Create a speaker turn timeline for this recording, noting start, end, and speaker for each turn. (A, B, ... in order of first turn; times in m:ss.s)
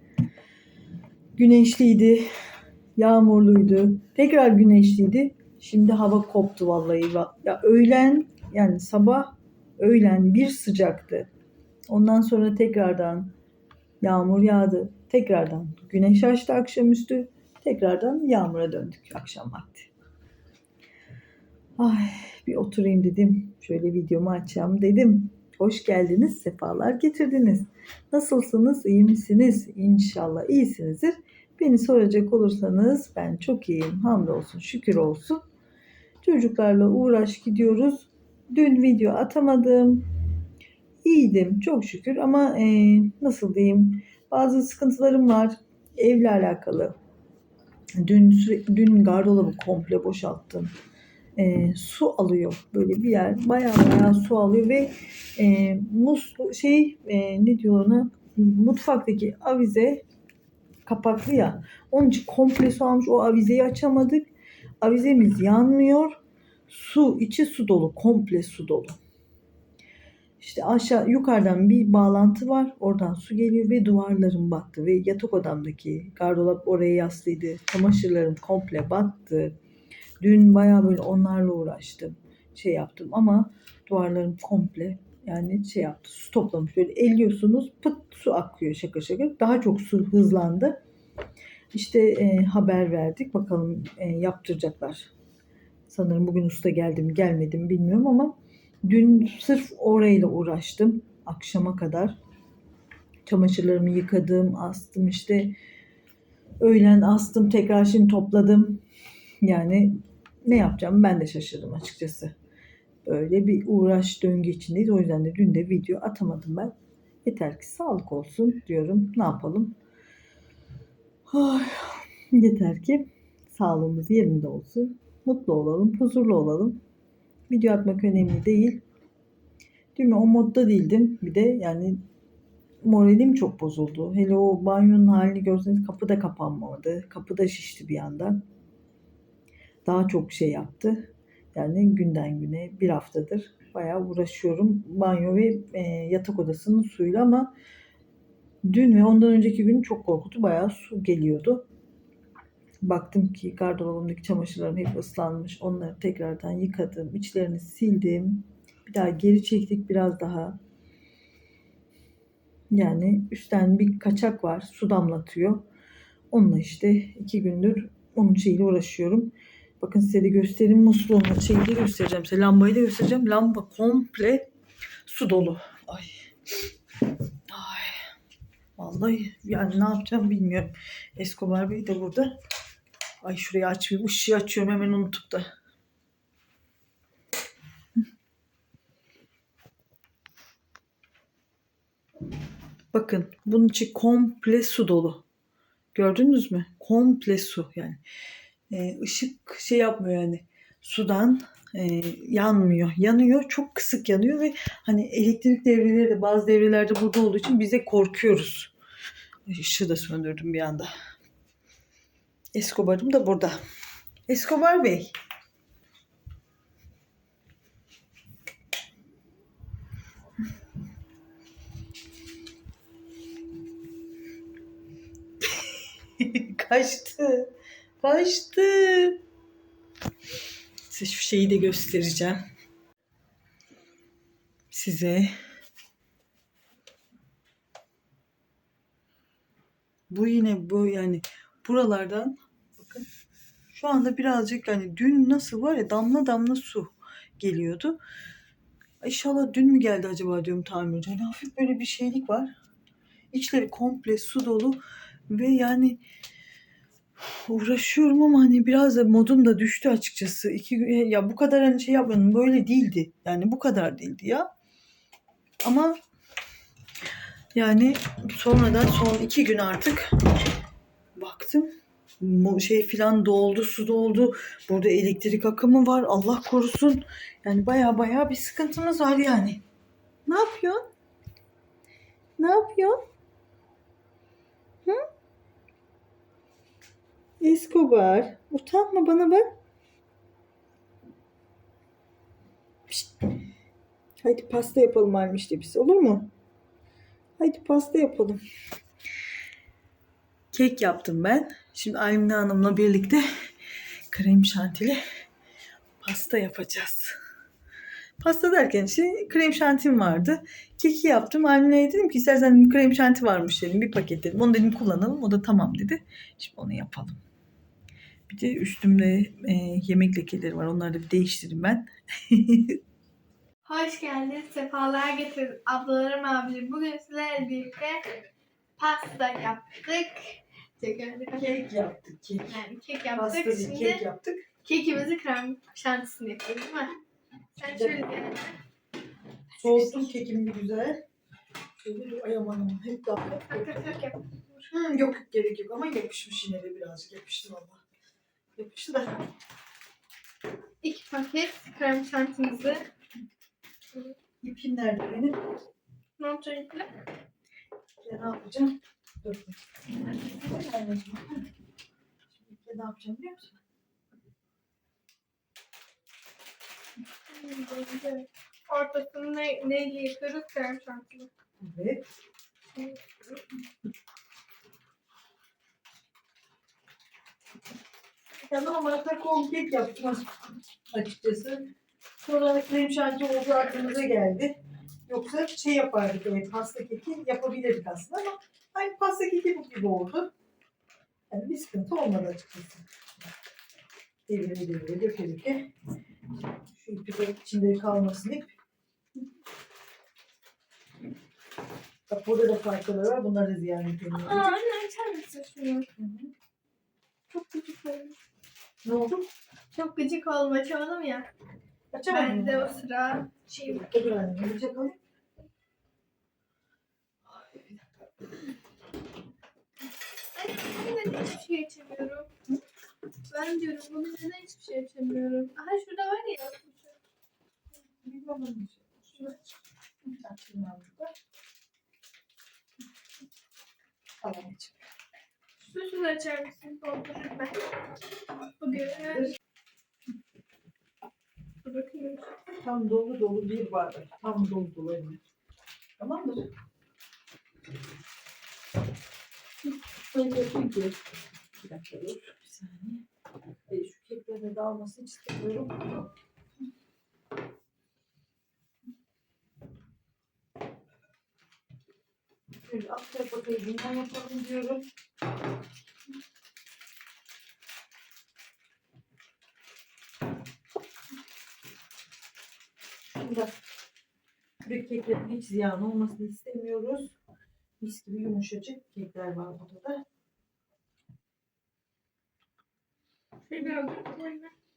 0:01.4-0:02.3 A
0:03.0-0:11.3 A
0:11.9-0:13.3 A
0:14.0-0:19.9 A
0:21.8-0:35.4 A
0:36.2-0:40.1 A
0:41.0-0:47.0 A
0:48.0-0:50.7 A
0:51.4-1:00.0 A
1:00.9-1:04.3 A
1:04.8-1:09.0 A
1:10.4-1:19.6 A
1:20.2-1:30.8 A
1:31.7-1:35.1 A
1:35.9-1:42.2 A
1:43.3-1:45.6 A
1:46.6-1:48.8 A
1:49.4-1:52.3 A
1:53.1-1:59.8 A
2:01.3-2:06.8 A
2:07.5-2:08.8 A
2:10.0-2:12.0 A
2:12.8-2:18.4 A
2:19.8-2:27.5 A
2:28.6-2:31.7 A
2:32.8-2:40.6 A
2:42.7-2:45.7 A
2:46.3-2:54.5 A
2:55.1-2:56.2 A
2:57.5-2:58.0 A
2:58.8-3:02.4 A
3:03.2-3:05.5 A
3:12.9-3:15.2 A
3:15.9-3:18.0 A
3:18.7-3:28.7 A
3:29.5-3:30.9 A
3:32.5-3:33.6 A
3:34.3-3:35.1 A
3:46.2-3:49.2 A
3:50.9-3:52.4 A
3:54.7-3:55.3 A
4:00.1-4:03.1 A
4:03.7-4:08.0 A
4:09.0-4:12.5 A
4:13.3-4:16.0 A
4:17.5-4:24.5 A
4:25.6-4:26.0 A
4:27.5-4:30.1 A
4:31.2-4:39.6 A
4:40.3-4:40.8 A
4:42.4-4:43.0 A
4:47.4-4:49.5 A
4:52.9-4:53.1 A
4:54.2-4:56.3 A
4:57.4-4:58.4 A
5:00.5-5:03.2 A
5:04.1-5:05.0 A
5:06.0-5:07.2 A
5:08.2-5:17.2 A
5:18.3-5:22.8 A
5:23.7-5:28.1 B
5:28.8-5:31.6 B
5:31.3-5:32.6 A
5:32.5-5:34.0 B
5:33.2-5:34.5 A
5:34.6-5:36.9 B
5:37.6-5:38.6 B
5:37.7-5:38.0 A
5:39.5-5:40.1 B
5:39.6-5:41.0 A
5:41.8-5:44.0 A
5:43.4-5:44.7 B
5:44.7-5:47.8 A
5:48.6-5:49.3 A
5:50.8-5:52.8 B
5:54.4-5:55.4 A
5:56.2-5:56.9 B
5:58.0-6:01.5 A
6:02.3-6:03.6 A
6:07.3-6:11.3 B
6:11.6-6:12.1 A
6:12.8-6:13.4 B
6:18.4-6:20.4 A
6:20.9-6:21.7 A
6:22.2-6:30.3 A
6:31.3-6:32.8 A
6:34.3-6:35.7 A
6:36.6-6:38.6 A
6:42.1-6:44.6 A
6:44.1-6:45.9 B
6:46.0-6:46.3 A
6:47.3-6:48.2 B
6:48.8-6:49.2 A
6:49.7-6:51.3 B
6:51.9-6:52.8 A
6:52.1-6:54.0 B
6:53.6-6:55.0 A
6:57.3-6:57.9 A
7:00.4-7:02.3 B
7:03.3-7:07.0 B
7:08.0-7:09.3 A
7:10.0-7:11.1 A
7:14.2-7:14.8 A
7:15.6-7:17.7 B
7:18.6-7:19.4 B
7:18.7-7:19.3 A
7:21.6-7:22.3 B
7:22.6-7:25.2 A
7:26.0-7:26.5 A
7:30.1-7:31.0 A
7:31.6-7:33.0 A
7:33.7-7:36.1 A
7:42.6-7:44.8 A
7:53.1-7:53.5 A
7:54.6-7:57.2 A
7:57.8-8:00.0 A
8:03.5-8:04.5 B